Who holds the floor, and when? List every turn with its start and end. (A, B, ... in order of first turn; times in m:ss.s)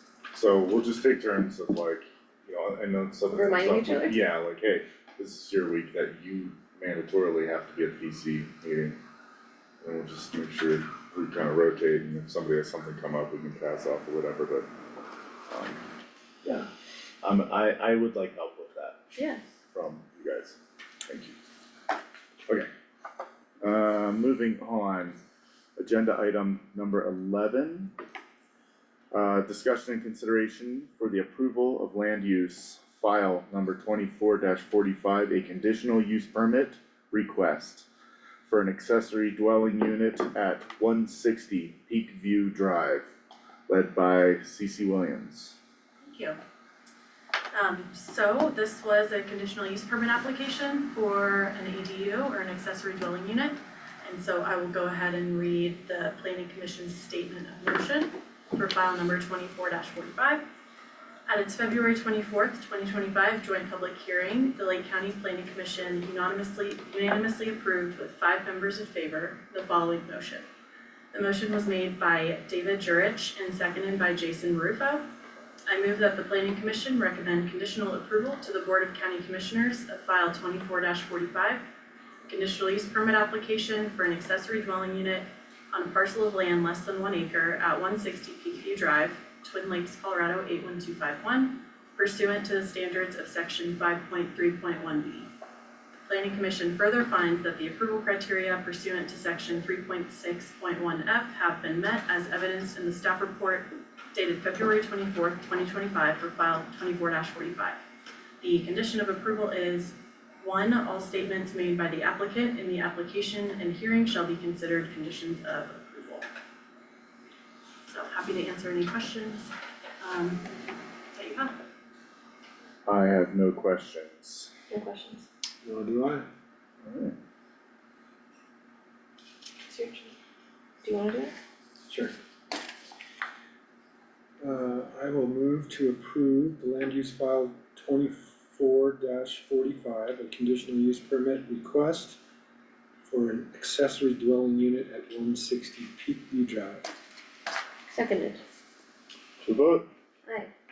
0:00.3-0:09.0 A
0:03.3-0:04.2 B
0:09.8-0:14.7 A
0:15.5-0:15.8 A
0:17.2-0:19.0 A
0:19.2-0:19.4 B
0:19.7-0:21.3 A
0:23.6-0:25.2 A
0:25.8-0:27.9 A
0:29.1-0:37.8 A
0:38.5-0:43.1 A
0:43.7-0:45.6 A
0:46.0-0:46.4 C
0:47.5-1:00.4 C
1:01.3-1:10.4 C
1:11.1-1:15.0 C
1:15.7-1:21.6 C
1:22.2-1:35.3 C
1:36.0-1:47.8 C
1:48.4-1:56.3 C
1:57.9-2:00.5 C
2:01.1-2:01.5 C
2:02.8-2:04.5 A
2:04.7-2:05.2 B
2:05.6-2:06.2 D
2:06.8-2:07.1 A
2:09.7-2:10.1 B
2:10.8-2:11.4 B
2:14.4-2:22.2 D
2:23.1-2:26.9 D
2:27.9-2:28.4 B
2:29.4-2:29.9 A